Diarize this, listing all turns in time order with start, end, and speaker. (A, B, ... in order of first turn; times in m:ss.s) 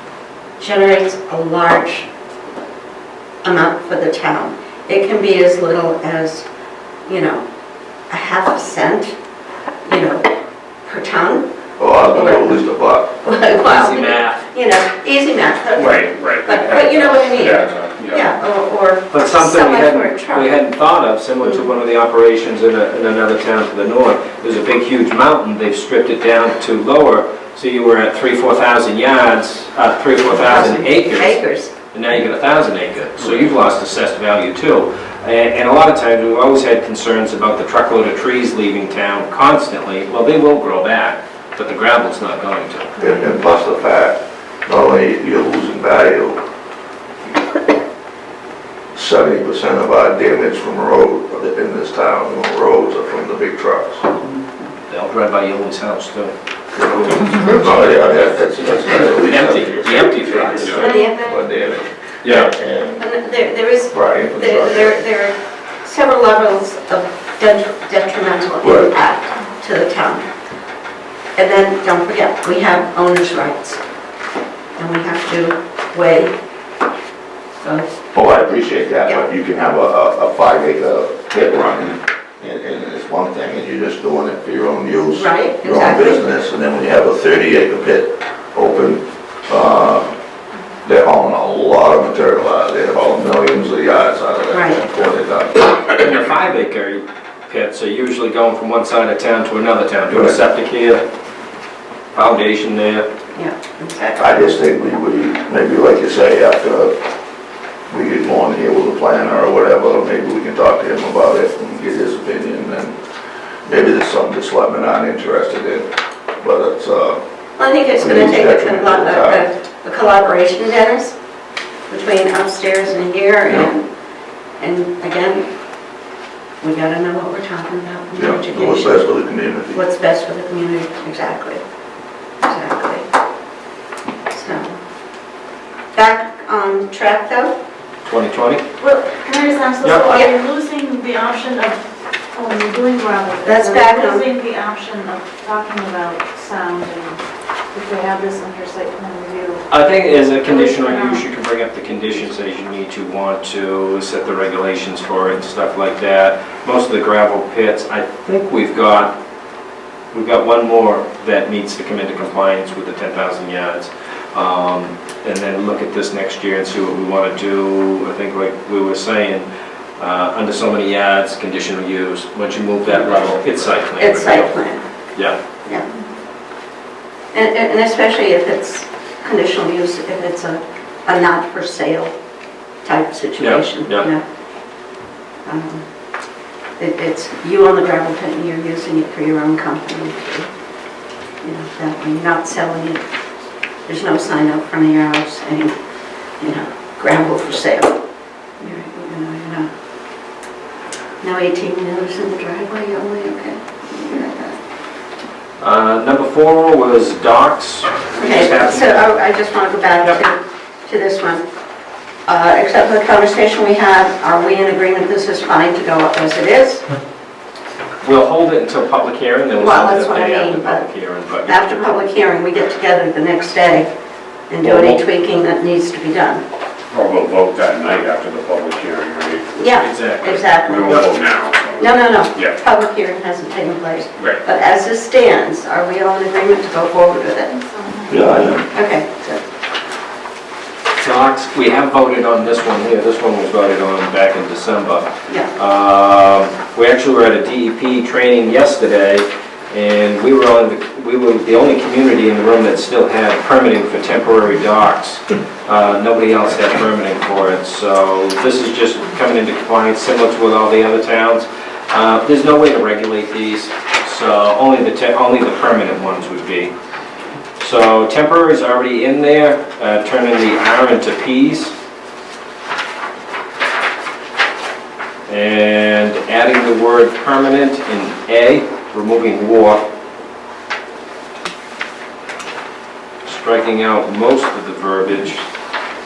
0:00.6-0:02.1 A
0:03.4-0:06.4 A
0:07.0-0:07.4 A
0:08.1-0:09.1 A
0:09.8-0:10.3 A
0:10.8-0:12.6 A
0:11.8-0:13.1 B
0:13.2-0:20.5 A
0:13.6-0:14.4 C
0:15.8-0:18.3 D
0:19.1-0:31.4 C
0:30.3-0:31.7 A
0:31.9-0:43.0 C
0:43.0-0:46.4 B
0:48.9-0:54.1 B
0:54.9-0:56.3 C
0:56.7-1:03.0 B
0:57.0-1:01.1 C
1:00.8-1:01.4 A
1:02.2-1:02.5 C
1:03.0-1:10.2 A
1:03.9-1:05.0 B
1:08.6-1:08.9 B
1:11.4-1:13.8 A
1:14.8-1:16.3 A
1:17.6-1:17.9 A
1:18.1-1:30.1 B
1:25.1-1:26.4 A
1:30.8-1:36.0 B
1:34.5-1:34.8 A
1:35.9-1:41.0 C
1:40.1-1:40.4 B
1:42.1-1:43.1 C
1:43.3-1:44.4 A
1:44.2-1:46.9 B
1:47.9-1:53.0 B
1:53.6-1:55.9 B
1:56.4-1:57.2 B
1:57.6-2:01.1 A
1:58.0-1:59.5 B
2:01.9-2:03.8 A
2:04.6-2:05.5 A
2:06.6-2:09.0 A
2:08.2-2:09.8 B
2:09.7-2:11.6 A
2:12.4-2:13.0 A
2:14.3-2:14.8 A
2:15.9-2:17.5 A
2:18.0-2:18.6 C
2:18.8-2:29.7 E
2:19.8-2:20.1 C
2:20.0-2:20.3 A
2:23.4-2:24.3 A
2:29.7-2:39.1 C
2:30.4-2:31.2 E
2:40.1-2:54.5 C
2:54.0-2:54.8 A
2:57.3-3:02.1 A
3:02.8-3:04.2 A
3:03.4-3:04.1 C
3:05.4-3:05.8 A
3:06.8-3:10.5 A
3:11.4-3:13.0 A
3:13.8-3:15.8 A
3:16.4-3:18.0 A
3:18.6-3:19.7 A
3:21.2-3:24.6 A
3:25.6-3:29.0 C
3:28.2-3:31.4 A
3:32.3-3:36.8 A
3:38.0-3:42.0 C
3:39.5-3:40.8 A
3:41.4-3:43.9 A
3:44.5-3:46.4 A
3:44.6-3:45.0 C
3:46.9-3:49.6 D
3:49.5-3:51.1 A
3:49.8-3:51.1 C
3:50.6-3:52.6 D
3:51.8-3:57.6 A
3:57.5-3:58.3 E
3:58.1-3:58.6 B
3:58.7-3:59.4 A
4:01.0-4:26.7 C
4:27.6-4:31.7 C
4:35.3-4:39.8 C
4:43.2-4:45.4 C